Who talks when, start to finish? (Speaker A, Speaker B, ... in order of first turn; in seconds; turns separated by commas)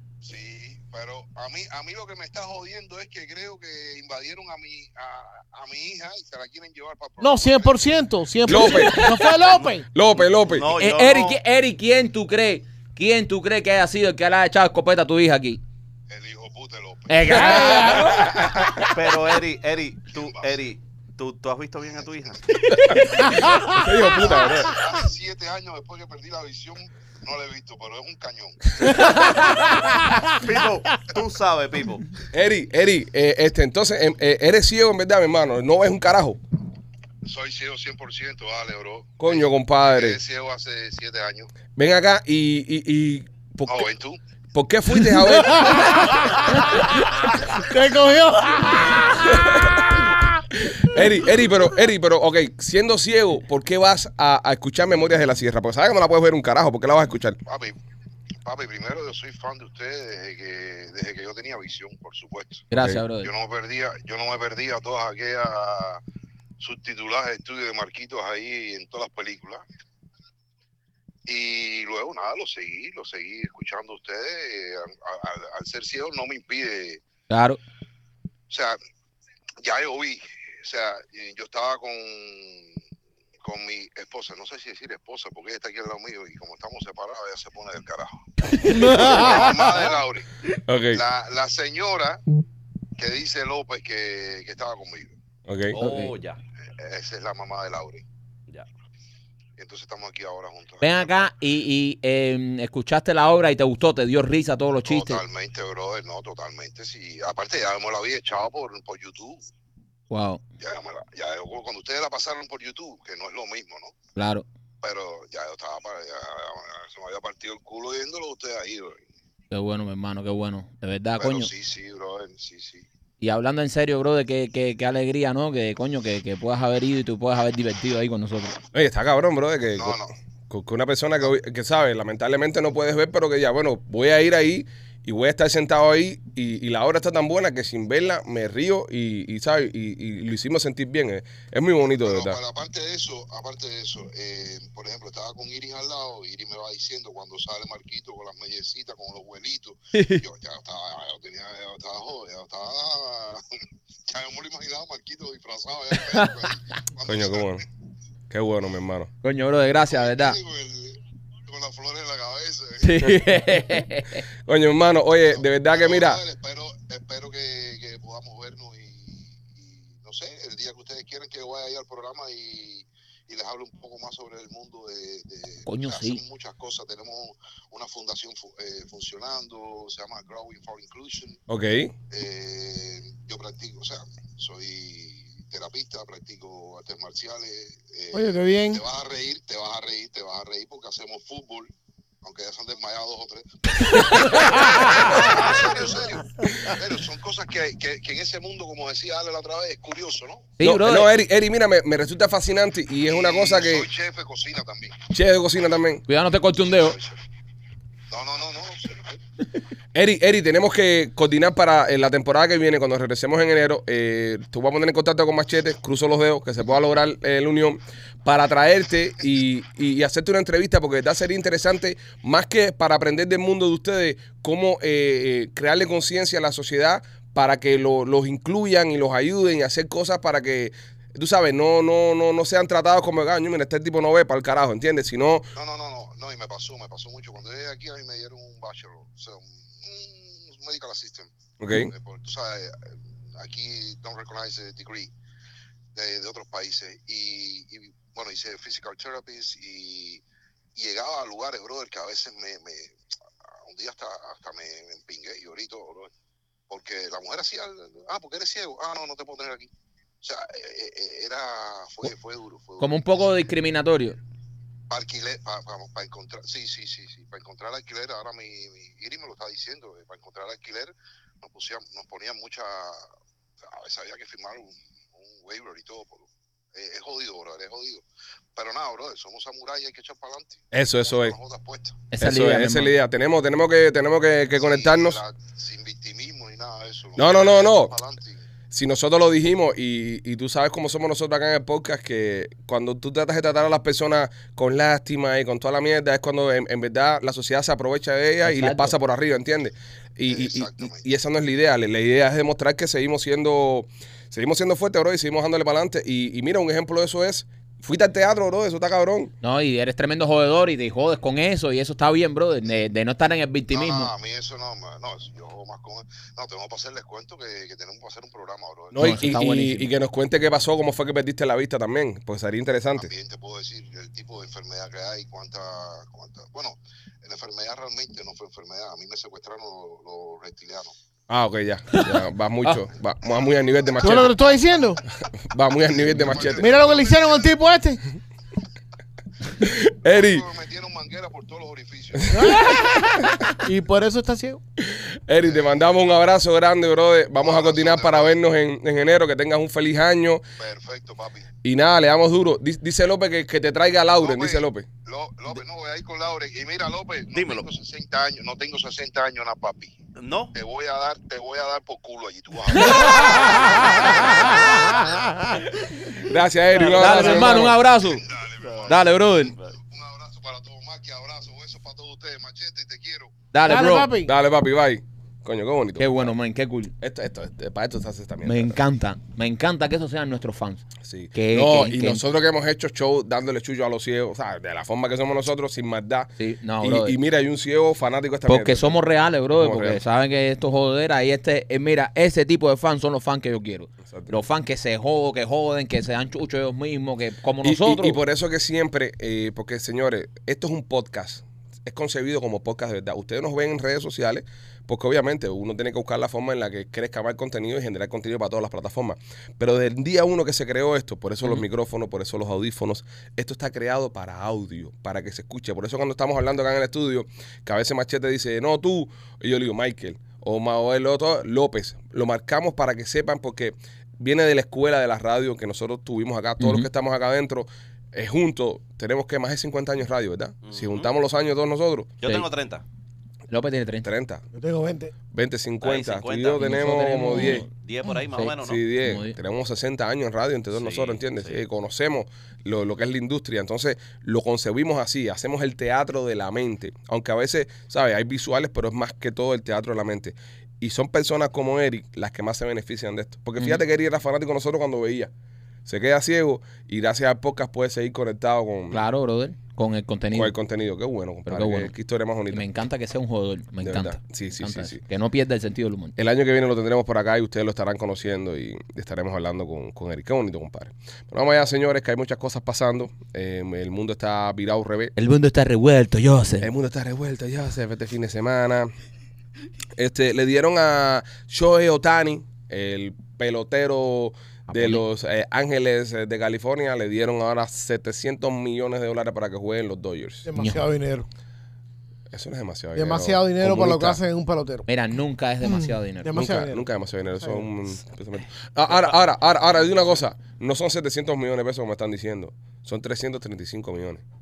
Speaker A: 0.2-7.8, Speaker B: 7.2-9.9, Speaker C: 8.5-9.1, Speaker D: 8.6-9.3, Speaker E: 9.4-9.8, Speaker C: 9.9-10.7, Speaker E: 10.5-11.4, Speaker D: 10.8-15.6, Speaker A: 16.1-17.4, Speaker D: 17.1-18.9, Speaker B: 17.3-18.2, Speaker C: 17.8-18.8, Speaker E: 18.8-22.5, Speaker B: 23.3-23.8, Speaker C: 23.7-24.8, Speaker A: 24.0-28.9, Speaker B: 28.9-30.3, Speaker D: 29.0-29.7, Speaker E: 30.4-32.1, Speaker C: 32.3-36.4, Speaker A: 37.2-41.5, Speaker C: 39.2-40.2, Speaker C: 41.8-43.9, Speaker A: 43.7-44.2, Speaker C: 44.5-46.3, Speaker B: 45.1-50.4, Speaker C: 49.3-49.9, Speaker C: 50.8-57.4, Speaker A: 57.5-57.8, Speaker A: 58.4-62.7, Speaker D: 62.7-63.3, Speaker C: 62.8-63.0, Speaker A: 63.2-66.0, Speaker A: 66.6-69.6, Speaker A: 71.3-77.0, Speaker D: 77.3-77.6, Speaker A: 78.5-78.8, Speaker A: 79.6-82.8, Speaker A: 83.4-88.2, Speaker B: 88.6-89.8, Speaker D: 88.7-88.9, Speaker A: 89.0-90.3, Speaker C: 90.7-91.0, Speaker A: 90.9-92.2, Speaker A: 93.0-95.2, Speaker C: 95.5-95.8, Speaker E: 95.7-96.4, Speaker D: 95.8-96.1, Speaker A: 96.8-98.0, Speaker A: 99.6-101.3, Speaker D: 100.8-105.2, Speaker A: 104.9-109.4, Speaker D: 110.1-110.4, Speaker A: 110.6-114.0, Speaker D: 114.2-114.5, Speaker A: 114.8-119.0, Speaker D: 119.5-121.5, Speaker A: 121.2-122.9, Speaker D: 123.2-128.6, Speaker C: 128.7-142.4, Speaker A: 129.8-130.1, Speaker A: 141.9-153.4, Speaker D: 149.9-150.2, Speaker A: 154.1-157.6, Speaker D: 156.1-156.3, Speaker C: 157.1-157.6, Speaker C: 158.3-159.1, Speaker D: 159.2-160.4, Speaker A: 159.9-163.2, Speaker D: 162.8-164.2, Speaker C: 164.5-166.2, Speaker A: 165.3-181.4, Speaker D: 175.7-176.2, Speaker C: 181.5-181.9, Speaker A: 182.1-191.7, Speaker B: 188.1-188.8, Speaker A: 192.2-200.5, Speaker B: 194.4-195.5, Speaker B: 196.4-196.7, Speaker D: 200.6-201.1, Speaker C: 200.6-203.9, Speaker A: 203.1-205.0, Speaker C: 205.1-206.0, Speaker D: 206.1-207.0, Speaker A: 206.8-207.2, Speaker A: 208.1-209.2, Speaker C: 209.9-235.5, Speaker A: 235.6-241.3, Speaker C: 241.6-241.9, Speaker A: 241.9-245.1, Speaker A: 245.9-250.2, Speaker A: 250.8-256.1, Speaker A: 256.7-259.7, Speaker A: 260.2-263.0, Speaker D: 262.8-264.2, Speaker A: 264.9-273.1, Speaker A: 273.6-278.0, Speaker A: 278.6-282.1, Speaker C: 280.7-281.4, Speaker D: 282.1-282.9, Speaker C: 282.2-285.2, Speaker A: 284.5-288.5, Speaker C: 287.2-287.9, Speaker C: 288.7-309.3, Speaker D: 298.4-298.9, Speaker A: 300.2-301.1, Speaker D: 309.4-314.1, Speaker A: 313.7-319.2, Speaker C: 318.9-323.1, Speaker D: 319.0-319.9, Speaker A: 323.0-330.9, Speaker C: 331.3-334.4, Speaker D: 331.9-332.9, Speaker B: 334.0-335.0, Speaker C: 335.4-336.7, Speaker A: 336.1-337.4, Speaker B: 336.6-338.0, Speaker C: 339.6-340.5, Speaker A: 340.1-342.7, Speaker C: 342.1-343.4, Speaker B: 342.3-344.6, Speaker C: 344.8-350.4, Speaker A: 347.4-348.4, Speaker A: 350.6-351.5, Speaker C: 351.6-354.9, Speaker A: 354.2-360.0, Speaker E: 357.3-357.7, Speaker E: 360.2-360.5, Speaker A: 360.5-365.3, Speaker D: 362.7-364.7, Speaker B: 363.7-365.7, Speaker D: 365.8-366.3, Speaker C: 366.2-367.8, Speaker E: 366.8-367.4, Speaker D: 366.9-368.2, Speaker A: 367.9-373.4, Speaker E: 368.6-369.8, Speaker D: 368.9-369.6, Speaker D: 373.5-374.1, Speaker B: 373.6-374.3, Speaker C: 374.2-376.3, Speaker D: 376.0-376.9, Speaker C: 377.0-378.8, Speaker D: 378.4-382.2, Speaker C: 381.0-389.0, Speaker D: 386.4-387.2, Speaker D: 388.5-398.2, Speaker C: 389.5-390.0, Speaker C: 394.1-394.4, Speaker C: 397.6-432.1, Speaker D: 426.6-426.9, Speaker E: 430.6-431.1, Speaker E: 432.2-432.8, Speaker D: 433.5-434.1, Speaker C: 434.0-434.4, Speaker B: 434.5-435.1, Speaker C: 435.3-437.7, Speaker E: 435.8-437.0, Speaker D: 436.6-437.7, Speaker E: 437.7-438.8, Speaker D: 438.3-439.4, Speaker C: 438.6-455.3, Speaker E: 440.7-441.6, Speaker C: 455.9-459.0, Speaker D: 458.9-460.5, Speaker C: 460.3-462.7, Speaker D: 461.5-461.9, Speaker D: 462.5-466.1, Speaker C: 463.8-465.0, Speaker C: 466.2-475.1, Speaker D: 475.2-476.7, Speaker C: 476.6-478.9, Speaker C: 480.0-490.5, Speaker D: 484.7-485.0, Speaker B: 490.4-491.3, Speaker D: 490.6-490.9, Speaker C: 492.3-494.2, Speaker B: 492.9-494.9, Speaker D: 494.9-496.5, Speaker B: 495.6-496.9, Speaker C: 496.3-504.2, Speaker B: 497.4-497.7